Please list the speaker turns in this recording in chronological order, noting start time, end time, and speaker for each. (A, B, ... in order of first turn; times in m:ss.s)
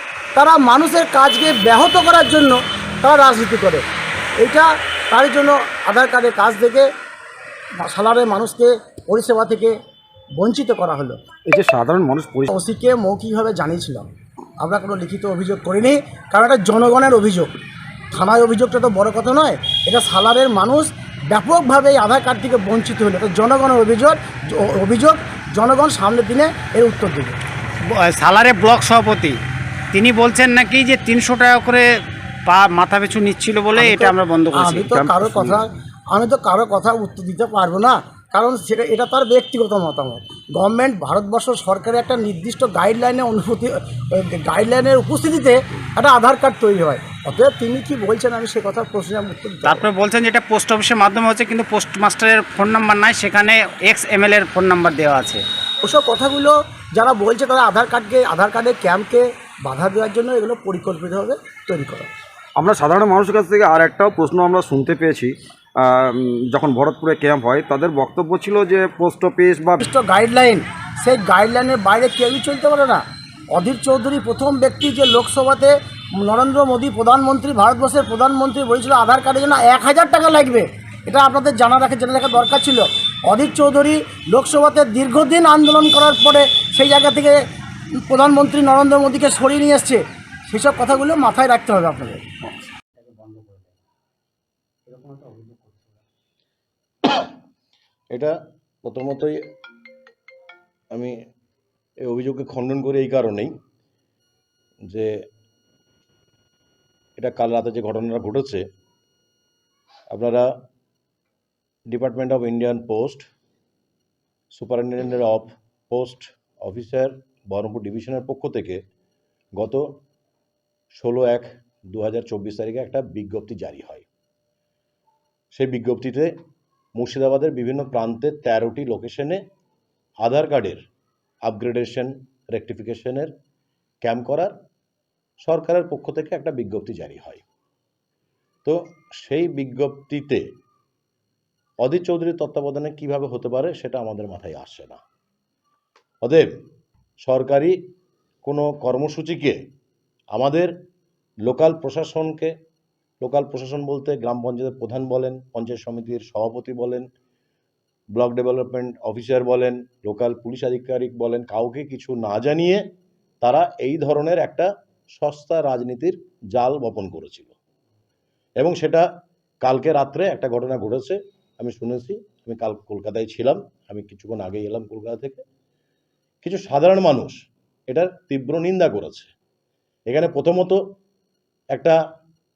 0:00.4-0:03.8 A
0:04.4-0:06.9 A
0:07.8-0:09.8 A
0:10.4-0:11.2 A
0:11.4-0:12.5 B
0:12.5-0:14.1 A
0:14.6-0:17.5 A
0:18.1-0:27.4 A
0:27.8-0:29.4 C
0:29.9-0:31.8 C
0:32.5-0:34.7 C
0:33.7-0:49.9 A
0:34.9-0:35.6 B
0:49.7-0:55.4 C
0:55.8-1:02.1 A
1:02.6-1:09.8 B
1:09.8-1:13.0 A
1:13.5-1:27.4 A
1:27.9-1:32.2 A
1:33.0-1:33.7 C
1:34.9-1:36.0 C
1:38.1-1:39.4 D
1:42.0-1:43.5 D
1:44.9-1:45.1 D
1:47.2-1:48.7 D
1:50.1-1:50.5 D
1:51.9-1:53.3 D
1:54.5-1:58.8 D
1:59.6-1:59.8 D
2:00.9-2:04.1 D
2:05.5-2:06.3 D
2:07.0-2:09.4 D
2:10.2-2:10.8 D
2:11.4-2:13.3 D
2:14.0-2:14.5 D
2:15.4-2:17.4 D
2:18.6-2:20.4 D
2:21.8-2:25.0 D
2:26.2-2:26.5 D
2:27.2-2:27.8 D
2:28.4-2:29.6 D
2:30.3-2:30.7 D
2:31.4-2:32.5 D
2:33.2-2:37.0 D
2:38.1-2:42.8 D
2:43.4-2:47.5 D
2:48.6-2:49.0 D
2:49.6-2:55.4 D
2:56.4-2:57.4 D
2:57.9-2:59.3 D
3:00.1-3:00.8 D
3:01.7-3:02.0 D